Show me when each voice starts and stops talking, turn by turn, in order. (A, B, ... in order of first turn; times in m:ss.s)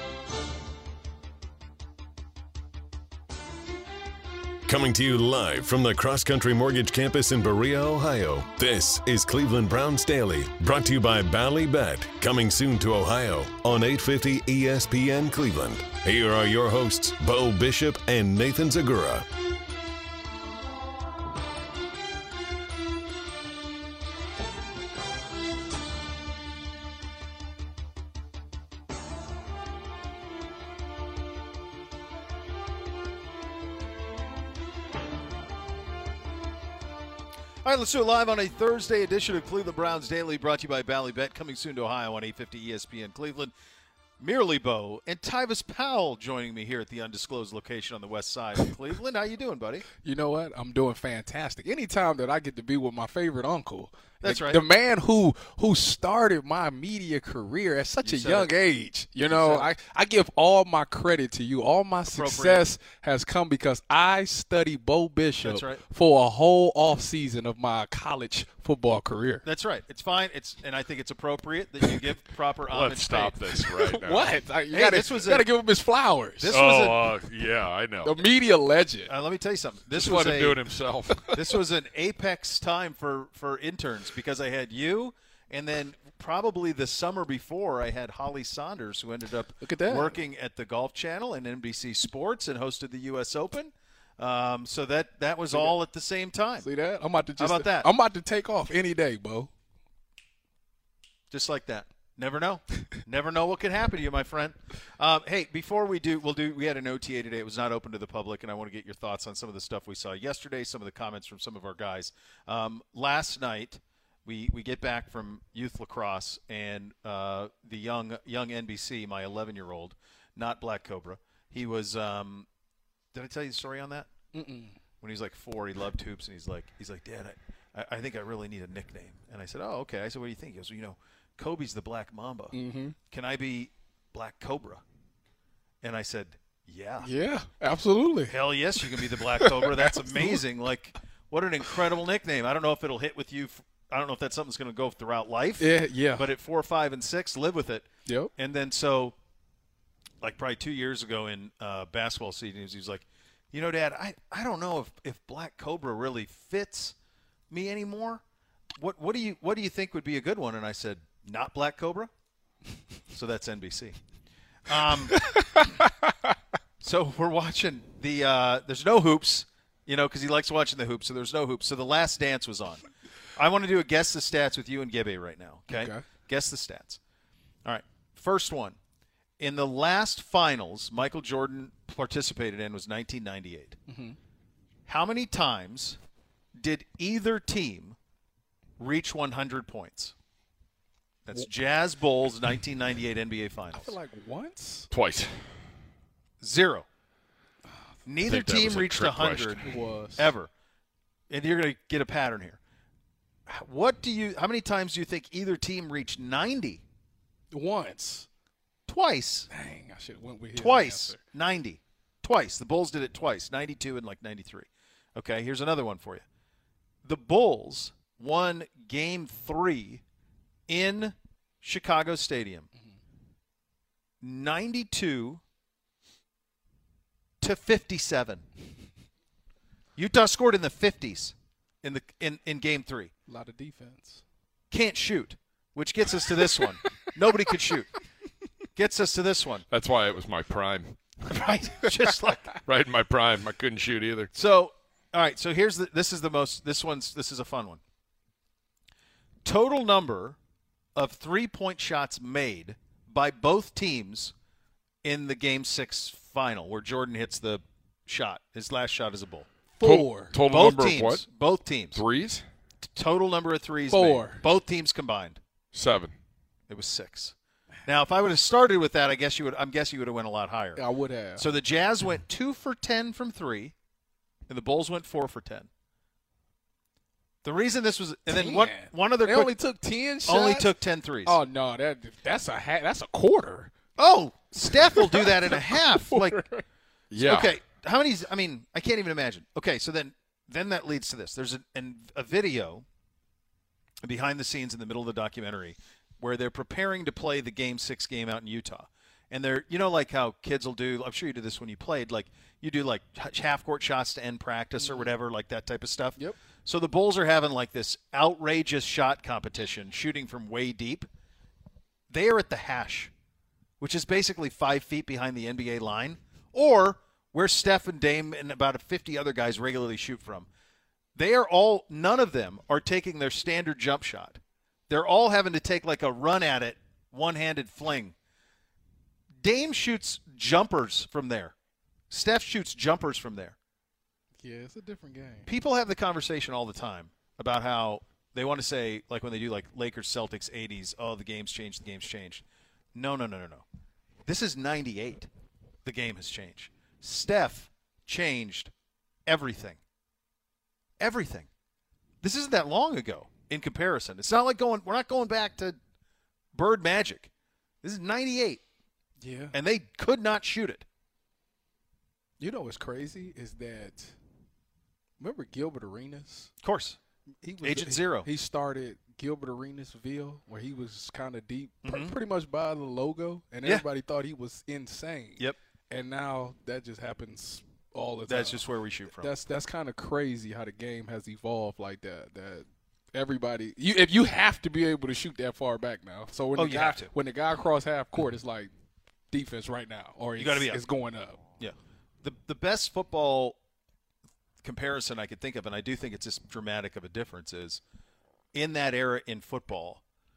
0:04.7-0:19.3 A
0:37.6-0:43.5 B
0:44.2-0:49.8 B
0:50.0-1:09.4 C
0:54.2-0:54.7 B
0:58.0-0:58.5 B
0:59.3-0:59.7 B
1:02.1-1:02.6 B
1:05.4-1:05.8 B
1:09.4-1:13.4 B
1:12.7-1:14.3 D
1:13.8-1:16.5 C
1:14.7-1:15.5 B
1:16.4-1:17.2 B
1:16.5-1:18.2 D
1:18.0-1:19.1 C
1:19.1-1:20.7 B
1:19.9-1:21.3 D
1:21.3-1:36.7 B
1:29.6-1:30.2 C
1:36.6-1:39.5 C
1:37.4-1:37.9 B
1:41.3-2:02.5 B
2:03.1-2:04.1 B
2:04.3-2:04.8 C
2:05.0-2:12.6 B
2:12.5-2:13.0 C
2:13.1-2:14.8 B
2:15.8-2:17.1 B
2:17.0-2:20.4 C
2:18.3-2:29.2 B
2:25.6-2:26.3 C
2:28.1-2:28.3 C
2:30.2-2:37.0 B
2:37.5-2:38.2 B
2:38.8-2:42.1 B
2:43.1-2:44.0 B
2:44.7-2:45.7 B
2:45.1-2:46.3 C
2:46.8-2:52.8 B
2:53.4-2:57.0 B
2:55.7-2:56.1 C
2:57.6-2:58.8 B
2:59.4-3:03.8 B
3:03.9-3:04.2 C
3:04.9-3:06.0 B
3:06.6-3:08.0 B
3:08.8-3:10.1 B
3:11.3-3:14.0 B
3:13.7-3:14.9 C
3:14.9-3:15.3 D
3:16.4-3:16.9 B
3:18.1-3:19.7 B
3:18.3-3:19.7 D
3:19.6-3:20.3 C
3:20.2-3:20.5 B
3:21.3-3:22.6 B
3:23.5-3:26.8 B
3:27.5-3:28.3 C
3:28.9-3:29.5 B
3:29.5-3:31.2 C
3:30.6-3:36.2 B
3:37.0-3:40.0 B
3:40.7-3:42.7 B
3:44.2-3:45.4 B
3:47.4-3:48.4 B
3:50.0-3:53.1 B
3:53.3-3:54.2 C
3:54.7-3:57.9 B
3:56.6-3:56.9 C
3:58.8-3:59.7 B
3:59.7-4:01.0 D
4:01.3-4:02.6 B
4:02.6-4:04.3 D
4:04.3-4:07.8 B
4:09.4-4:10.4 B
4:11.0-4:14.3 B
4:15.0-4:19.5 B
4:19.8-4:20.3 C
4:19.8-4:21.3 D
4:20.4-4:22.0 B
4:21.9-4:22.4 D
4:22.8-4:25.4 B
4:23.9-4:24.5 C
4:25.7-4:26.1 D
4:26.7-4:27.4 B
4:27.9-4:30.8 B
4:30.8-4:31.5 C
4:31.4-4:33.7 B
4:34.5-4:35.7 B
4:37.4-4:39.6 B
4:38.3-4:40.7 C
4:40.3-4:41.4 B
4:41.2-4:43.7 C
4:44.0-4:46.5 B
4:44.7-4:46.6 C
4:47.1-4:47.5 D
4:47.2-4:52.8 B
4:54.0-5:11.1 B
5:04.8-5:05.1 C
5:12.1-5:13.1 B
5:13.8-5:20.5 B
5:21.2-5:28.2 B
5:29.4-5:31.6 B
5:32.1-5:33.6 B
5:34.4-5:35.5 C
5:35.5-5:42.4 B
5:43.0-5:43.6 B
5:44.3-5:45.3 B
5:45.8-5:48.7 B
5:49.3-5:49.8 B
5:51.0-5:51.5 B
5:52.2-5:55.8 B
5:56.5-5:57.3 B
5:57.8-5:58.6 B
5:59.2-5:59.6 C
5:59.5-6:00.9 B
6:02.4-6:04.2 C
6:05.2-6:06.5 C
6:06.6-6:07.0 B
6:07.4-6:18.6 C
6:07.6-6:08.3 B
6:11.8-6:12.2 B
6:18.3-6:19.4 B
6:19.2-6:28.7 C
6:26.6-6:27.1 B
6:29.3-6:31.4 C
6:30.4-6:30.8 B
6:31.6-6:33.6 B
6:34.6-6:37.8 B
6:38.5-6:40.0 B